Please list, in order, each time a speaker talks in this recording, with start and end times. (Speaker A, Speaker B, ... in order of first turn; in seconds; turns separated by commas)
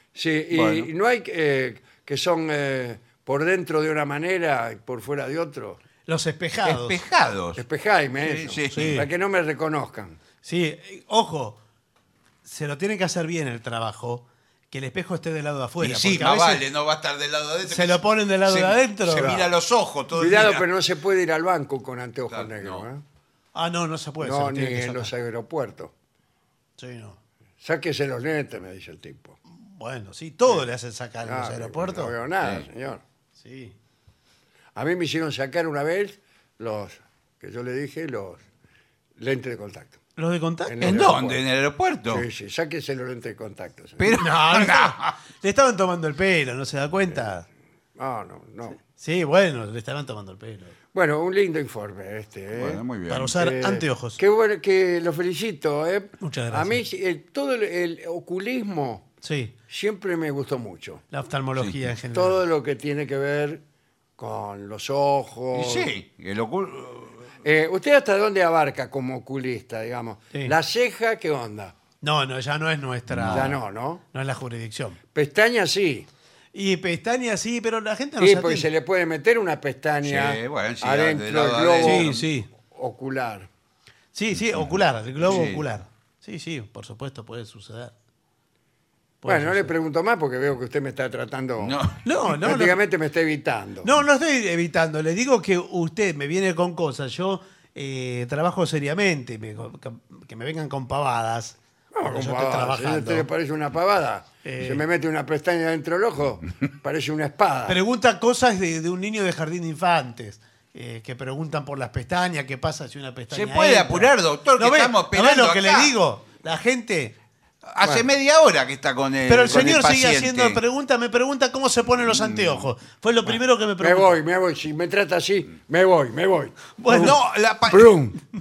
Speaker A: 0.1-5.8, Speaker B: 0.5-0.9, Speaker C: 6.1-7.0, Speaker B: 6.6-7.6, Speaker A: 7.6-10.2, Speaker B: 8.2-9.0, Speaker C: 8.7-9.1, Speaker C: 10.4-11.6, Speaker C: 12.4-16.6, Speaker B: 15.8-20.7, Speaker C: 17.6-19.5, Speaker A: 20.1-23.0, Speaker B: 22.3-22.9, Speaker C: 23.6-25.1, Speaker A: 24.2-25.9, Speaker C: 26.8-27.2, Speaker A: 27.6-29.4, Speaker C: 29.6-32.1, Speaker A: 31.2-33.0, Speaker C: 33.4-33.8, Speaker A: 34.8-38.4, Speaker A: 39.2-40.0, Speaker C: 40.2-41.0, Speaker A: 40.7-41.4, Speaker B: 40.8-42.3, Speaker A: 42.1-44.2, Speaker B: 44.0-45.1, Speaker C: 44.1-47.5, Speaker A: 48.0-48.8, Speaker C: 48.9-50.7, Speaker A: 50.9-52.8, Speaker B: 52.5-53.4, Speaker C: 53.1-54.2, Speaker A: 53.4-59.1, Speaker C: 56.2-56.8, Speaker C: 59.2-59.5, Speaker A: 59.7-61.0, Speaker C: 61.1-62.4, Speaker A: 62.1-63.6, Speaker A: 64.2-65.9, Speaker B: 65.5-67.3, Speaker A: 67.4-71.8, Speaker C: 72.0-73.6, Speaker B: 73.1-73.6, Speaker A: 73.3-74.0, Speaker C: 74.1-75.0, Speaker A: 75.1-76.1, Speaker C: 76.5-78.7, Speaker A: 78.2-82.1, Speaker B: 80.0-82.2, Speaker C: 81.8-82.5, Speaker A: 82.7-83.5, Speaker C: 84.1-87.9, Speaker B: 85.2-85.7, Speaker C: 89.2-89.7, Speaker A: 89.2-91.8, Speaker B: 91.6-92.3, Speaker C: 92.0-92.8, Speaker A: 92.4-94.0, Speaker C: 93.8-103.3, Speaker A: 101.9-107.8, Speaker C: 104.4-104.8, Speaker C: 107.7-117.2, Speaker B: 113.3-116.0, Speaker B: 117.6-120.6, Speaker A: 117.8-118.1, Speaker C: 119.3-124.1, Speaker A: 123.8-128.2, Speaker C: 126.8-127.2, Speaker B: 126.9-128.0